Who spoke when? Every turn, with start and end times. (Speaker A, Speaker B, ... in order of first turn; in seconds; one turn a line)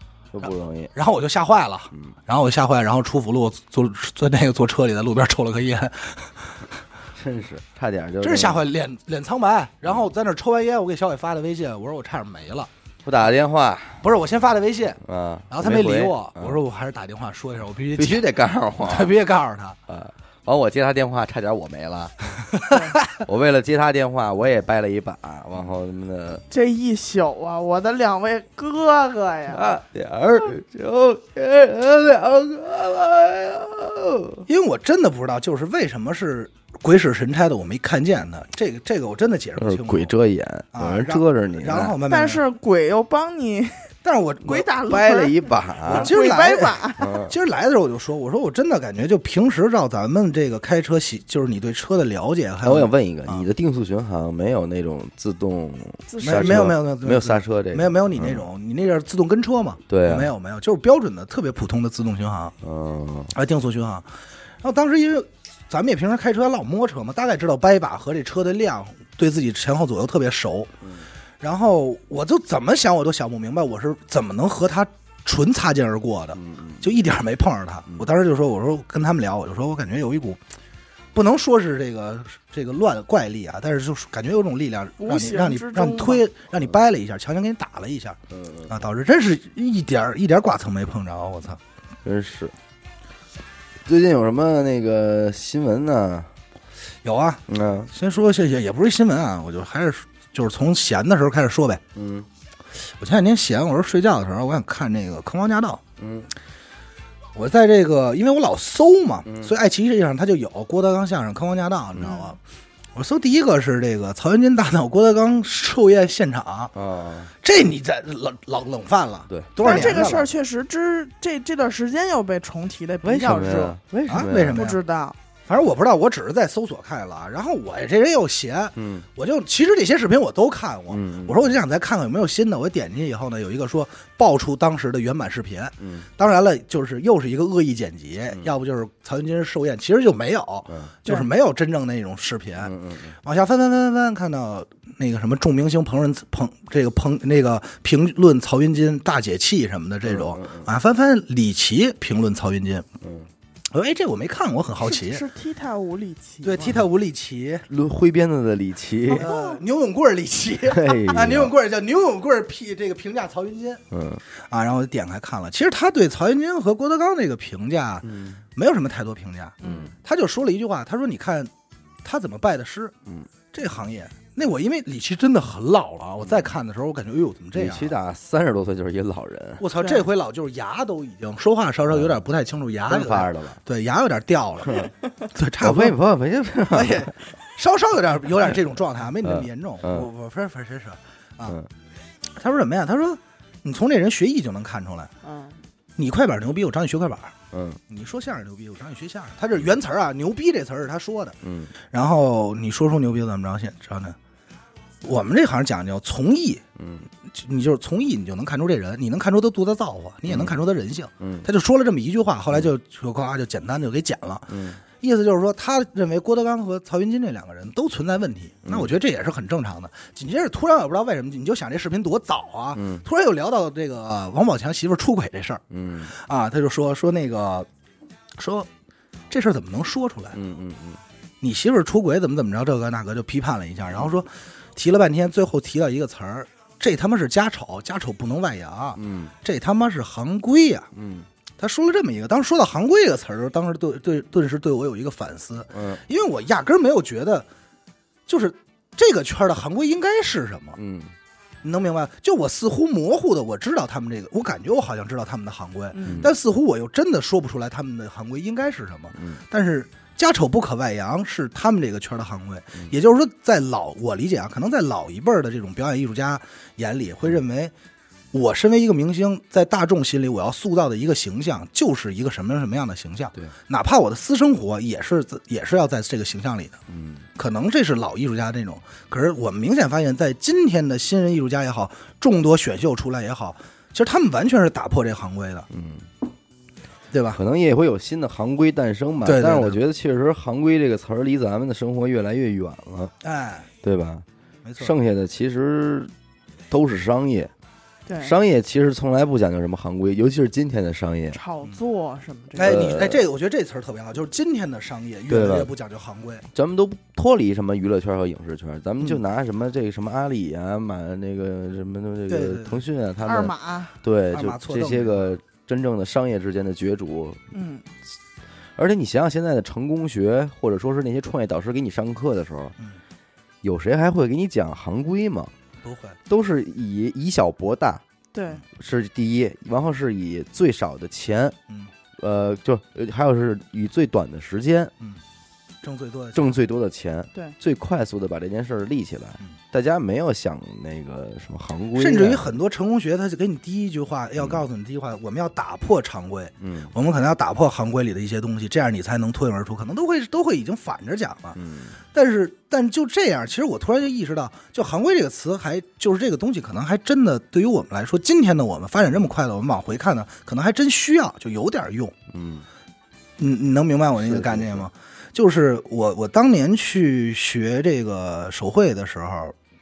Speaker A: 0.3-0.9
Speaker B: 0.4-6.7
Speaker A: 7.2-8.6
Speaker B: 8.2-12.7
Speaker A: 13.1-14.0
Speaker B: 14.0-18.3
Speaker A: 15.0-16.6
Speaker A: 18.0-19.1
Speaker B: 18.8-19.8
Speaker A: 19.9-22.5
Speaker B: 22.5-22.9
Speaker A: 23.2-26.4
Speaker C: 26.5-29.8
Speaker A: 29.5-34.5
Speaker B: 34.5-40.1
Speaker A: 39.6-42.0
Speaker B: 40.7-42.4
Speaker C: 42.1-43.9
Speaker B: 44.0-44.8
Speaker C: 44.4-47.1
Speaker A: 44.8-46.1
Speaker B: 45.9-53.5
Speaker A: 47.0-47.3
Speaker A: 52.6-58.4
Speaker C: 56.1-56.7
Speaker B: 56.2-62.5
Speaker A: 59.9-60.3
Speaker A: 62.6-63.3
Speaker B: 63.3-64.1
Speaker B: 64.6-70.7
Speaker B: 71.4-80.4
Speaker A: 76.4-76.8
Speaker B: 81.1-91.6
Speaker C: 85.0-86.2
Speaker A: 88.3-88.8
Speaker A: 92.0-92.5
Speaker A: 93.9-96.3
Speaker B: 97.0-101.8
Speaker A: 97.5-97.9
Speaker A: 102.0-102.3
Speaker B: 102.8-105.8
Speaker A: 106.0-106.3
Speaker B: 107.3-112.4
Speaker A: 109.3-109.5
Speaker C: 112.0-112.3
Speaker B: 113.0-116.7
Speaker A: 116.7-117.3
Speaker B: 117.3-120.3
Speaker A: 119.3-120.2
Speaker C: 119.6-123.8
Speaker A: 123.0-124.6
Speaker B: 124.1-124.8
Speaker C: 124.5-125.2
Speaker B: 125.5-152.9
Speaker A: 128.8-129.1
Speaker A: 130.9-131.5
Speaker A: 135.8-136.1
Speaker A: 140.7-140.9
Speaker A: 142.6-143.2
Speaker A: 150.1-150.7
Speaker A: 153.0-153.3
Speaker B: 153.7-155.2
Speaker C: 154.9-156.7
Speaker B: 156.4-157.7
Speaker A: 157.7-159.3
Speaker C: 159.1-159.6
Speaker B: 159.1-163.8
Speaker A: 160.7-161.5
Speaker A: 163.9-164.2
Speaker B: 164.5-171.5
Speaker A: 168.0-168.4
Speaker A: 169.6-169.9
Speaker C: 169.6-169.9
Speaker B: 172.0-172.9
Speaker B: 173.5-178.0
Speaker A: 177.5-179.6
Speaker B: 179.6-186.0
Speaker C: 179.8-180.0
Speaker A: 181.9-182.2
Speaker A: 182.9-183.6
Speaker A: 185.6-187.1
Speaker B: 186.7-191.6
Speaker A: 189.2-190.1
Speaker B: 192.3-195.1
Speaker C: 195.2-195.6
Speaker B: 196.0-197.3
Speaker A: 197.5-197.8
Speaker B: 197.9-201.4
Speaker A: 201.4-201.7
Speaker B: 201.9-204.2
Speaker B: 205.0-206.6
Speaker A: 206.8-207.1
Speaker B: 207.2-227.7
Speaker A: 210.3-210.5
Speaker A: 211.2-211.5
Speaker A: 214.5-214.8
Speaker A: 218.7-218.9
Speaker A: 222.8-223.0
Speaker A: 225.7-226.1
Speaker B: 228.3-228.7
Speaker B: 229.3-230.4
Speaker A: 230.3-231.0
Speaker B: 231.4-240.9
Speaker A: 239.0-239.3
Speaker A: 240.9-241.3
Speaker B: 241.6-247.5
Speaker A: 245.7-246.0
Speaker B: 248.3-250.8
Speaker A: 250.8-251.1
Speaker B: 251.6-267.7
Speaker C: 255.9-256.3
Speaker A: 259.1-259.4
Speaker B: 268.3-276.8
Speaker A: 276.9-277.2
Speaker B: 277.4-285.7
Speaker A: 285.7-286.1
Speaker B: 287.1-287.4
Speaker A: 287.3-293.1
Speaker B: 289.2-289.8
Speaker B: 293.2-293.7
Speaker A: 293.8-294.2
Speaker B: 294.6-294.9
Speaker A: 294.8-296.1
Speaker A: 296.7-297.5
Speaker C: 298.1-298.3
Speaker A: 298.2-301.4
Speaker C: 301.3-302.8
Speaker B: 302.6-306.4
Speaker A: 302.6-303.2
Speaker A: 305.3-305.7
Speaker A: 306.5-317.4
Speaker B: 312.3-312.8
Speaker C: 313.2-313.9
Speaker B: 314.3-315.3
Speaker C: 317.5-317.9
Speaker A: 318.8-322.8
Speaker A: 323.6-325.5
Speaker B: 325.8-326.2
Speaker A: 326.3-328.0
Speaker C: 328.3-328.6
Speaker A: 328.7-331.6
Speaker A: 332.2-334.9
Speaker B: 335.8-336.6
Speaker A: 336.3-342.5
Speaker B: 341.9-351.6
Speaker A: 346.6-346.9
Speaker A: 351.6-352.0
Speaker B: 352.1-362.1
Speaker A: 362.3-362.6
Speaker B: 363.4-369.6
Speaker A: 364.2-364.9